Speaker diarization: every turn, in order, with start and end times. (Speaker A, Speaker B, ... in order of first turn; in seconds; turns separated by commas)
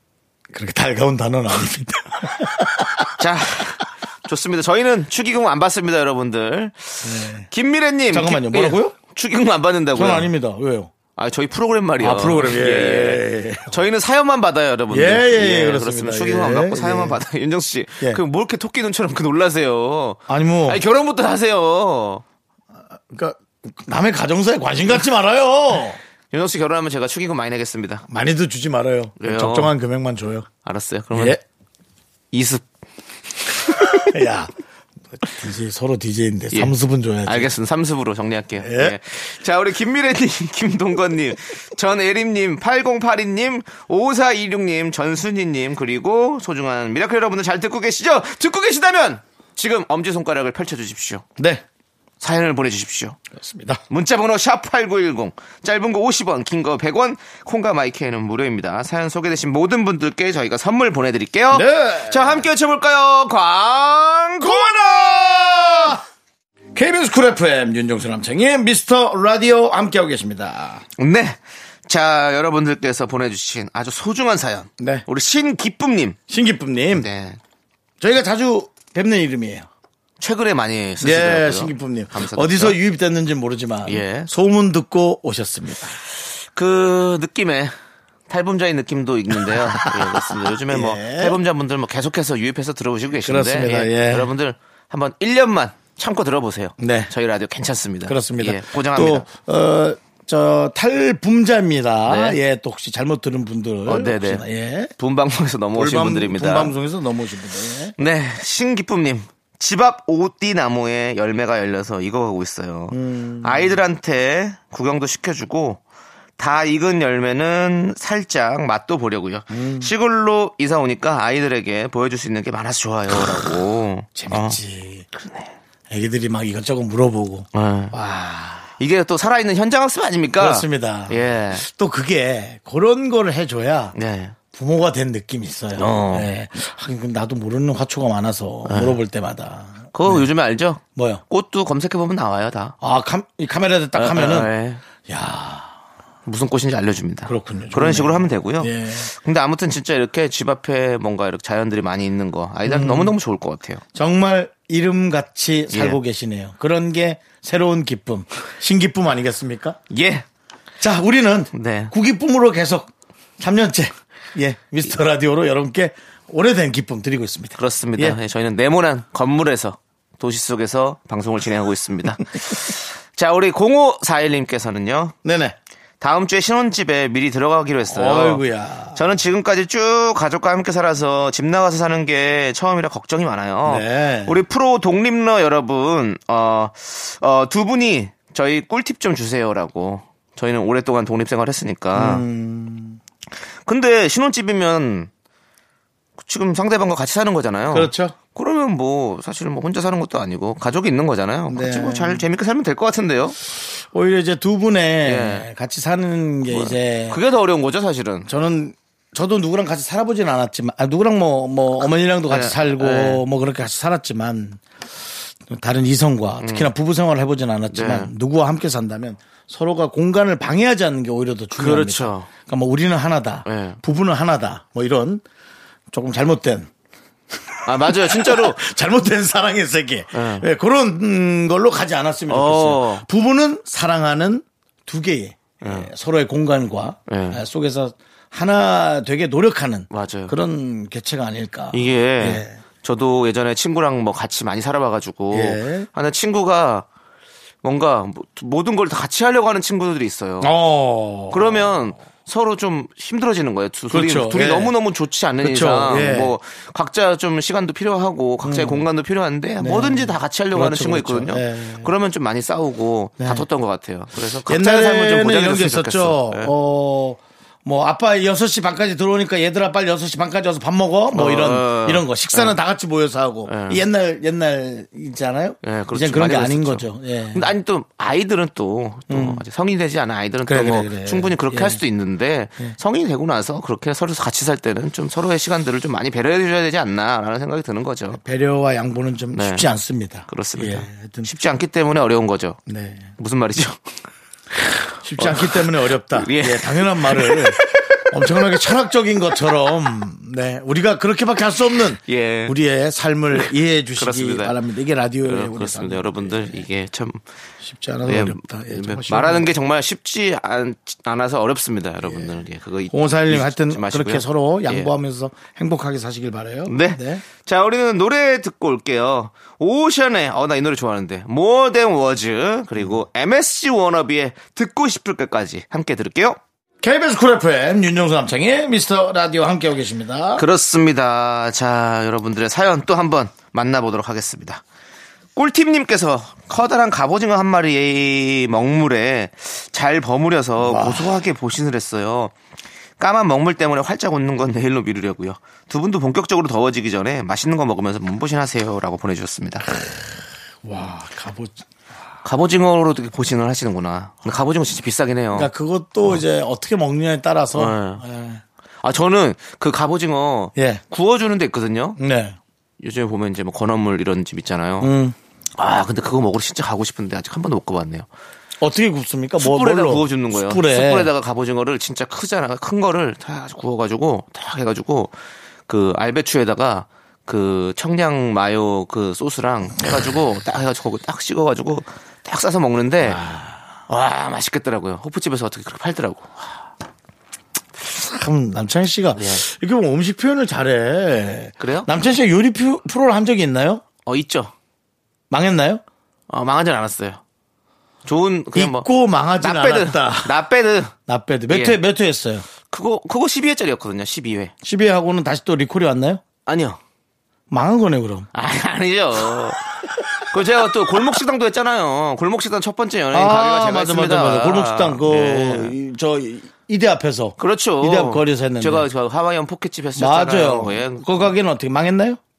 Speaker A: 0.5-3.1, Speaker B: 3.2-10.3, Speaker A: 7.0-7.5, Speaker A: 8.1-8.9, Speaker A: 9.9-10.9, Speaker B: 11.2-22.2, Speaker A: 12.0-13.8, Speaker A: 14.9-17.2, Speaker A: 20.3-20.8, Speaker A: 22.9-26.0, Speaker B: 26.3-28.0, Speaker A: 28.1-30.5, Speaker B: 29.2-29.7, Speaker B: 30.6-31.4, Speaker A: 31.1-31.4, Speaker B: 32.3-32.6, Speaker B: 33.6-34.1, Speaker A: 33.8-34.5, Speaker A: 35.2-37.5, Speaker B: 37.2-51.2, Speaker A: 38.6-39.0, Speaker A: 51.4-51.6, Speaker B: 52.2-53.2, Speaker A: 53.3-53.8, Speaker B: 53.9-64.6, Speaker A: 61.5-62.4, Speaker A: 64.4-66.0, Speaker A: 66.7-70.8, Speaker B: 71.0-76.2, Speaker A: 74.8-75.0, Speaker A: 76.3-77.1, Speaker B: 76.9-77.4, Speaker A: 78.0-79.7, Speaker B: 80.2-82.8, Speaker A: 81.0-86.0, Speaker B: 83.9-84.3, Speaker B: 86.5-87.7, Speaker B: 88.3-99.2, Speaker A: 89.5-91.4, Speaker A: 93.2-94.3, Speaker A: 96.8-97.1, Speaker A: 98.0-104.9, Speaker B: 102.0-102.4, Speaker B: 103.8-104.4, Speaker B: 105.0-106.7, Speaker A: 105.7-107.9, Speaker B: 108.0-115.8, Speaker A: 112.9-113.8, Speaker B: 116.4-124.6, Speaker A: 119.5-119.9, Speaker A: 124.1-125.0, Speaker B: 125.2-125.5, Speaker A: 125.9-128.8, Speaker B: 127.5-127.9, Speaker B: 128.8-131.6, Speaker A: 130.4-133.9, Speaker B: 133.9-134.4, Speaker A: 134.5-140.3, Speaker B: 135.8-136.3, Speaker B: 138.7-139.0, Speaker B: 139.9-142.8, Speaker A: 140.9-141.2, Speaker A: 142.8-144.5, Speaker B: 143.9-144.8, Speaker A: 145.1-145.7, Speaker B: 146.2-153.8, Speaker A: 147.2-149.1, Speaker A: 152.7-153.1, Speaker A: 153.9-159.8, Speaker B: 155.7-156.0, Speaker B: 159.9-160.2, Speaker A: 160.8-168.2, Speaker B: 161.5-161.9, Speaker B: 167.6-175.2, Speaker A: 175.2-175.6, Speaker B: 176.0-192.2, Speaker A: 177.9-179.1, Speaker A: 183.7-184.4, Speaker A: 191.9-193.0, Speaker B: 193.7-195.1, Speaker B: 196.2-203.4, Speaker A: 197.7-198.2, Speaker A: 201.5-202.2, Speaker A: 203.9-207.2, Speaker B: 205.0-205.5, Speaker B: 206.5-208.3, Speaker A: 208.3-214.6, Speaker B: 212.3-213.2, Speaker A: 215.5-225.2, Speaker B: 216.4-216.7, Speaker B: 217.7-218.1, Speaker B: 221.6-222.3, Speaker B: 223.5-223.8, Speaker A: 225.9-226.7, Speaker A: 227.5-242.5, Speaker B: 227.6-228.6, Speaker B: 230.1-230.5, Speaker B: 232.3-233.1, Speaker B: 235.6-235.9, Speaker B: 237.1-237.4, Speaker B: 239.9-240.3, Speaker B: 241.7-246.8, Speaker A: 245.3-245.9, Speaker B: 247.6-250.5, Speaker A: 250.4-251.6, Speaker B: 251.3-266.5, Speaker A: 253.9-254.7, Speaker A: 255.4-256.3, Speaker A: 258.4-258.8, Speaker A: 259.6-261.9, Speaker A: 263.2-263.4, Speaker A: 264.4-277.5, Speaker B: 271.1-272.6, Speaker B: 273.4-273.8, Speaker B: 275.6-288.2, Speaker A: 279.1-279.4, Speaker A: 280.4-281.8, Speaker A: 288.1-291.3, Speaker B: 289.3-289.7, Speaker B: 290.3-292.6, Speaker A: 292.7-293.1, Speaker B: 293.2-293.8, Speaker A: 295.0-306.6, Speaker B: 295.2-298.6, Speaker B: 302.1-302.5, Speaker B: 303.3-304.6, Speaker B: 305.2-307.2, Speaker A: 307.6-309.5, Speaker B: 308.1-314.9, Speaker A: 312.1-312.3, Speaker A: 312.9-317.2, Speaker B: 316.6-326.4, Speaker A: 326.8-330.4, Speaker B: 330.4-334.6, Speaker B: 335.4-342.3, Speaker A: 340.6-341.1, Speaker B: 343.0-349.7, Speaker A: 350.6-351.6, Speaker B: 352.2-355.5, Speaker A: 355.3-358.4, Speaker B: 357.5-358.0, Speaker B: 358.8-362.0, Speaker A: 360.6-360.8, Speaker A: 362.0-362.4, Speaker B: 362.8-364.9, Speaker A: 364.8-365.1, Speaker B: 365.6-368.1, Speaker A: 368.6-371.1, Speaker B: 369.4-375.1, Speaker B: 375.7-383.2, Speaker A: 383.0-383.6, Speaker B: 383.9-386.3, Speaker A: 387.8-393.8, Speaker B: 389.1-389.4, Speaker B: 391.6-391.9, Speaker B: 394.1-394.5, Speaker A: 395.3-395.8, Speaker B: 396.3-397.2, Speaker B: 398.0-398.9, Speaker A: 398.5-400.4, Speaker B: 399.4-400.9, Speaker A: 401.1-402.4, Speaker B: 401.5-401.8, Speaker B: 402.7-404.5, Speaker A: 404.6-406.2, Speaker B: 406.4-406.8, Speaker A: 407.5-408.3, Speaker B: 408.3-415.7, Speaker A: 413.1-418.9, Speaker B: 417.4-421.3, Speaker A: 419.9-422.2